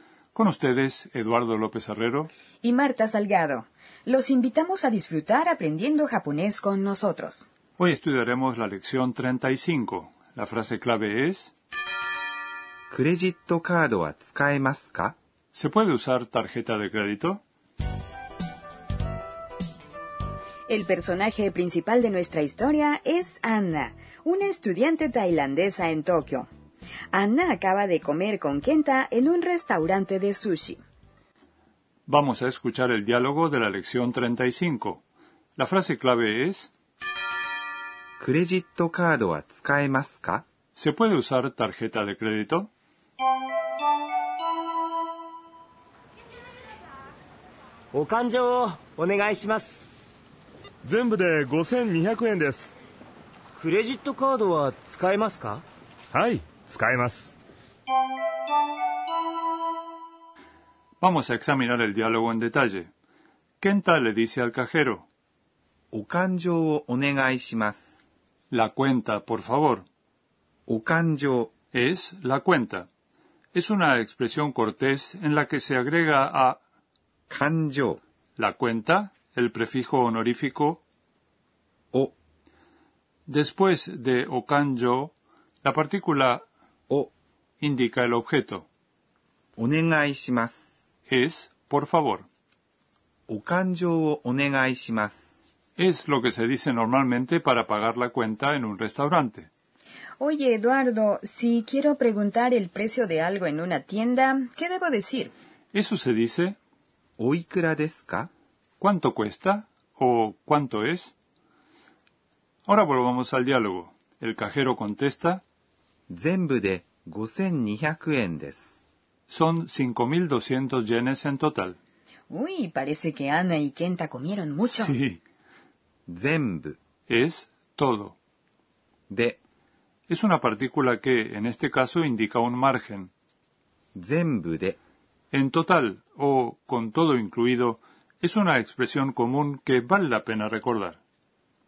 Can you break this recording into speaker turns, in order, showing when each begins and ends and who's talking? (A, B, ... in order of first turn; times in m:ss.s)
0:00.3-0:02.3 A
0:02.6-0:07.4 B
0:07.8-0:11.5 A
0:12.9-0:15.2 C
0:15.5-0:17.4 A
0:20.7-0:26.5 B
0:27.1-0:30.8 B
0:32.1-0:35.0 A
0:35.6-0:36.7 A
0:38.2-0:40.4 C
0:40.8-0:42.7 A
0:47.9-0:49.8 D
0:50.8-0:52.7 E
0:53.6-0:55.6 D
0:56.1-0:57.4 E
1:01.0-1:02.9 A
1:03.6-1:05.1 A
1:05.9-1:08.0 C
1:08.5-1:09.8 A
1:10.7-1:11.5 C
1:11.7-1:12.9 A
1:13.5-1:16.6 A
1:17.3-1:18.0 C
1:18.4-1:20.8 A
1:23.3-1:26.4 A
1:27.6-1:28.6 A
1:29.6-1:30.7 C
1:31.1-1:32.3 A
1:33.3-1:35.3 C
1:35.8-1:39.5 A
1:40.2-1:45.3 B
1:45.7-1:46.6 A
1:47.2-1:48.3 C
1:48.8-1:51.1 A
1:52.6-1:55.4 A
1:56.1-1:58.8 C
1:59.3-2:01.8 A
2:02.3-2:04.9 B
2:04.6-2:05.2 A
2:06.1-2:06.8 C
2:07.1-2:08.2 A
2:09.1-2:09.4 C
2:10.1-2:13.1 A
2:13.9-2:14.8 C
2:15.3-2:21.0 A